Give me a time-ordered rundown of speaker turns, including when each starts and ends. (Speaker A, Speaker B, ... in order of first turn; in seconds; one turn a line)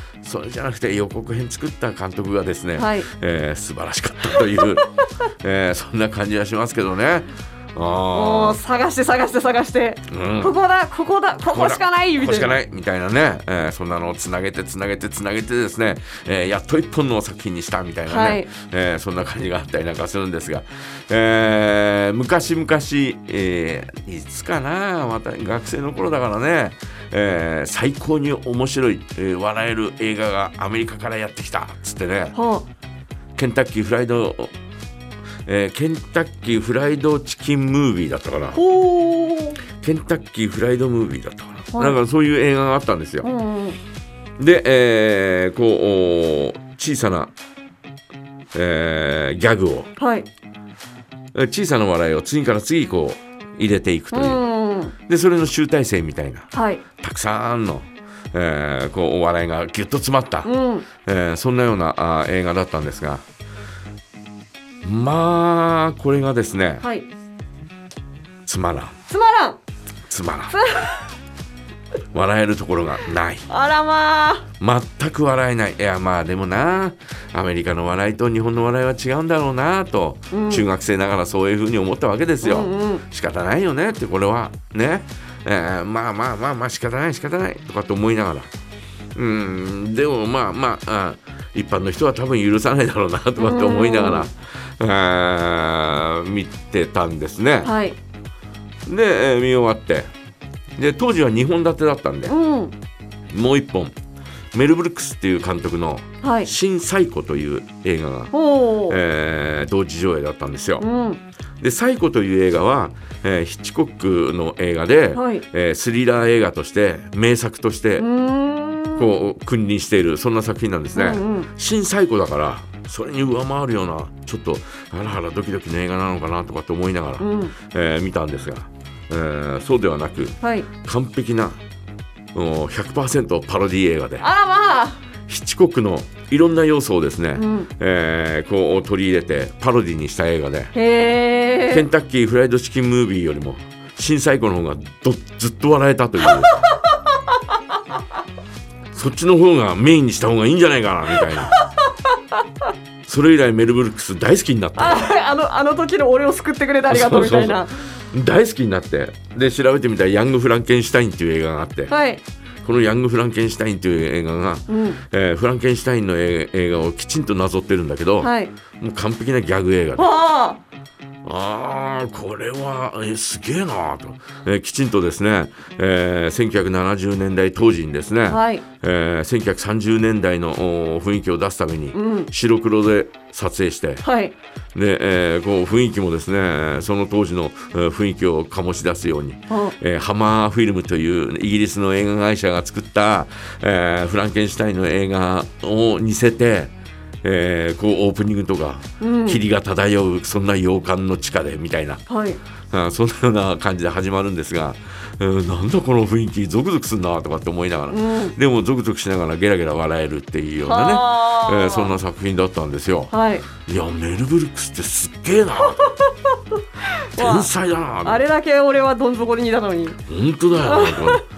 Speaker A: 0.2-8.6
Speaker B: 2.8-3.1
Speaker B: 8.1-12.5
Speaker A: 10.1-10.6
Speaker A: 11.5-32.4
Speaker B: 18.1-18.5
Speaker B: 32.3-32.6
Speaker A: 33.4-34.5
Speaker A: 35.5-38.6
Speaker B: 38.5-39.6
Speaker A: 39.8-43.3
Speaker B: 43.2-43.8
Speaker A: 44.4-47.3
Speaker A: 48.5-49.9
Speaker B: 50.0-50.3
Speaker A: 51.4-54.4
Speaker B: 54.1-54.9
Speaker A: 55.1-60.5
Speaker B: 56.5-56.8
Speaker B: 60.4-60.9
Speaker A: 61.0-63.2
Speaker A: 64.8-66.8
Speaker A: 68.5-69.0
Speaker B: 69.1-69.6
Speaker A: 70.1-70.6
Speaker B: 70.5-71.1
Speaker A: 72.1-73.5
Speaker B: 73.5-74.5
Speaker A: 74.6-88.5
Speaker B: 80.3-80.7
Speaker B: 82.4-83.0
Speaker A: 89.2-97.7
Speaker B: 93.4-94.3
Speaker B: 97.6-98.0
Speaker A: 98.9-100.1
Speaker A: 100.8-102.3
Speaker B: 102.3-102.7
Speaker A: 103.3-103.9
Speaker A: 104.5-108.3
Speaker B: 106.2-106.5
Speaker B: 108.3-109.0
Speaker A: 108.9-110.9
Speaker B: 110.8-111.2
Speaker A: 111.6-118.1
Speaker B: 115.1-115.4
Speaker B: 118.0-119.1
Speaker A: 119.0-131.6
Speaker B: 121.0-121.5
Speaker B: 127.2-127.5
Speaker B: 130.4-130.7
Speaker A: 132.3-134.2
Speaker B: 134.2-135.0
Speaker A: 135.3-140.7
Speaker B: 137.4-137.7
Speaker B: 140.7-141.8
Speaker A: 141.7-146.5
Speaker B: 146.2-146.6
Speaker A: 148.9-151.5
Speaker B: 151.2-151.9
Speaker A: 153.1-155.1
Speaker B: 154.8-157.9
Speaker A: 156.9-161.9
Speaker B: 161.9-162.2
Speaker A: 162.6-170.0
Speaker B: 164.7-165.0
Speaker B: 168.2-168.5
Speaker B: 170.0-170.6
Speaker A: 171.2-184.0
Speaker B: 178.3-178.6
Speaker B: 181.9-182.3
Speaker B: 184.0-184.3
Speaker A: 184.8-202.0
Speaker B: 189.5-189.8
Speaker B: 199.0-199.4
Speaker B: 202.1-202.4
Speaker A: 202.7-215.9
Speaker B: 207.9-208.3
Speaker B: 210.7-211.9
Speaker B: 213.1-213.5
Speaker B: 215.8-216.1
Speaker B: 217.1-217.5
Speaker A: 217.2-218.2
Speaker B: 218.0-220.0
Speaker A: 220.1-221.2
Speaker B: 220.6-221.2